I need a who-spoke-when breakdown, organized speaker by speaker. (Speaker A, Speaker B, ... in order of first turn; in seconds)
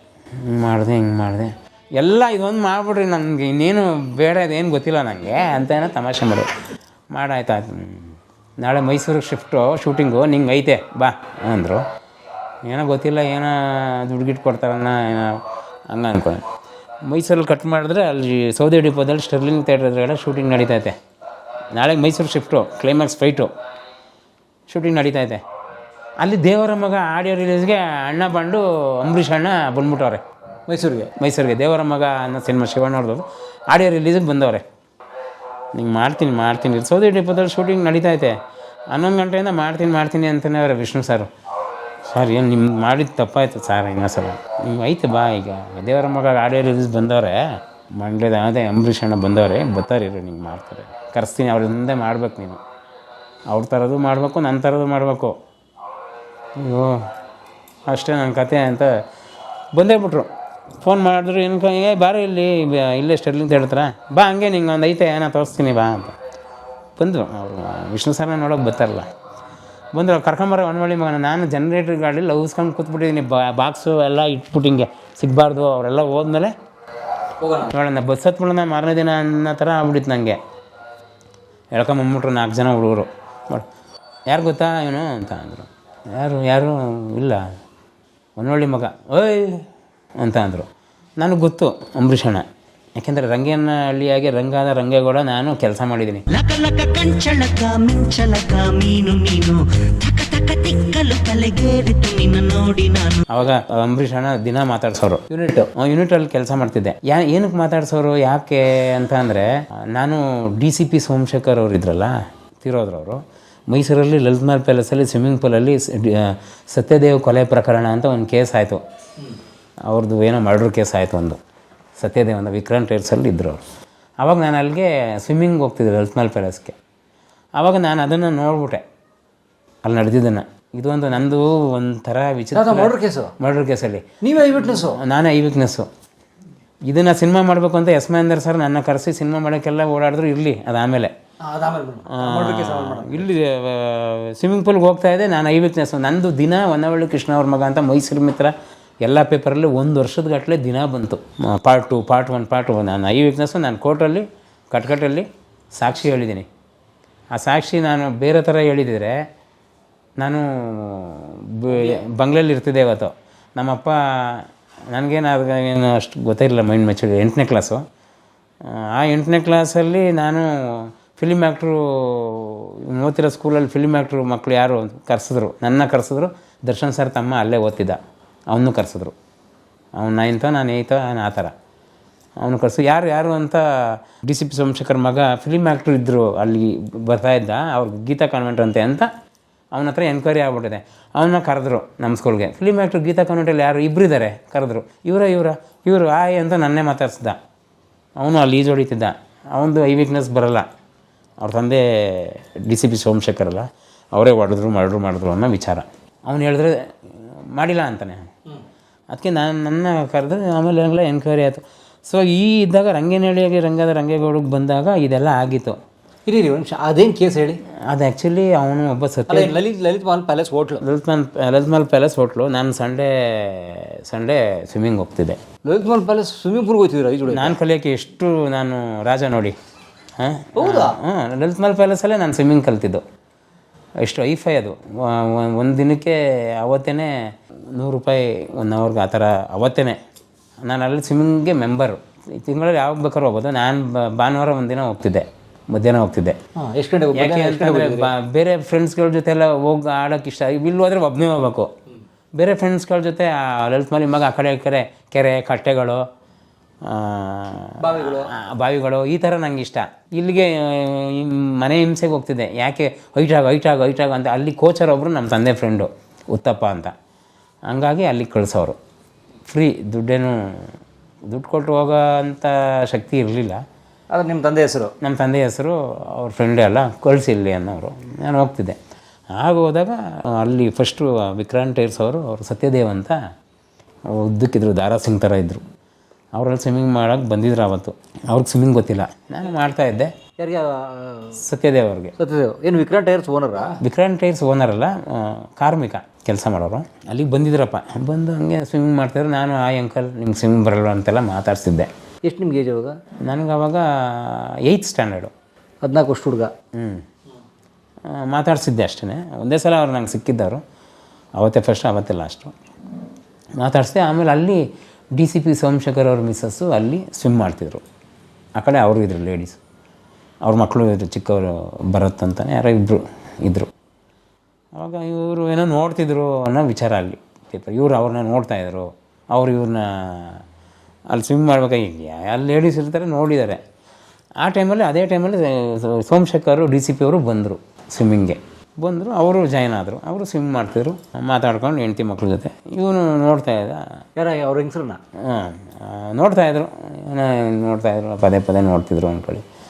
Speaker A: 0.4-6.5, 7.1-11.9, 12.7-16.4, 17.1-21.0, 21.8-23.5, 24.7-25.4, 26.2-30.2, 31.2-34.6, 35.8-38.4, 38.9-41.3, 42.1-52.6, 53.5-55.4, 56.6-57.1, 57.9-59.0, 59.8-60.3, 60.8-66.2, 67.0-69.1, 69.9-76.5, 77.7-80.4, 81.7-83.7, 84.3-87.5, 88.4-89.7, 90.2-90.7, 91.2-92.5, 93.0-96.2, 103.3-118.8, 119.9-121.4, 122.0-123.6, 124.2-126.8, 127.6-128.8, 129.8-134.1, 134.8-135.9, 136.9-141.1, 142.1-148.5, 149.0-156.5, 157.3-159.2, 160.2-167.8, 168.7-178.0, 178.5-179.1, 180.0-181.5, 182.4-189.1, 189.8-197.4, 198.2-200.7, 201.4-208.3, 209.1-215.8, 217.9-219.6, 220.8-225.4, 227.3-229.6, 230.2-233.0, 234.0-237.1, 237.8-240.0, 240.7-246.4, 247.2-251.7, 252.4-256.0, 256.8-266.9, 267.7-268.8, 269.5-270.7, 271.3-273.6, 275.0-278.8, 279.4-283.2, 284.1-285.6, 286.4-290.1, 291.4-292.1, 293.8-301.9, 303.2-305.3, 306.8-307.1, 308.1-310.6, 311.4-312.5, 313.6-314.6, 315.2-317.8, 318.6-319.6, 320.4-323.7, 324.8-330.4, 331.1-333.6, 334.4-343.9, 345.2-349.4
Speaker B: 30.7-31.1, 77.4-77.7, 105.3-105.7, 132.5-133.3, 134.2-135.0, 141.4-143.3, 161.7-162.0, 216.3-217.6, 219.3-220.8, 225.7-227.6, 230.6-231.0, 246.6-248.1, 257.8-258.3, 274.1-274.9, 290.4-291.4, 292.2-293.8, 302.3-303.0, 305.8-306.5, 344.2-345.0
Speaker C: 96.3-103.2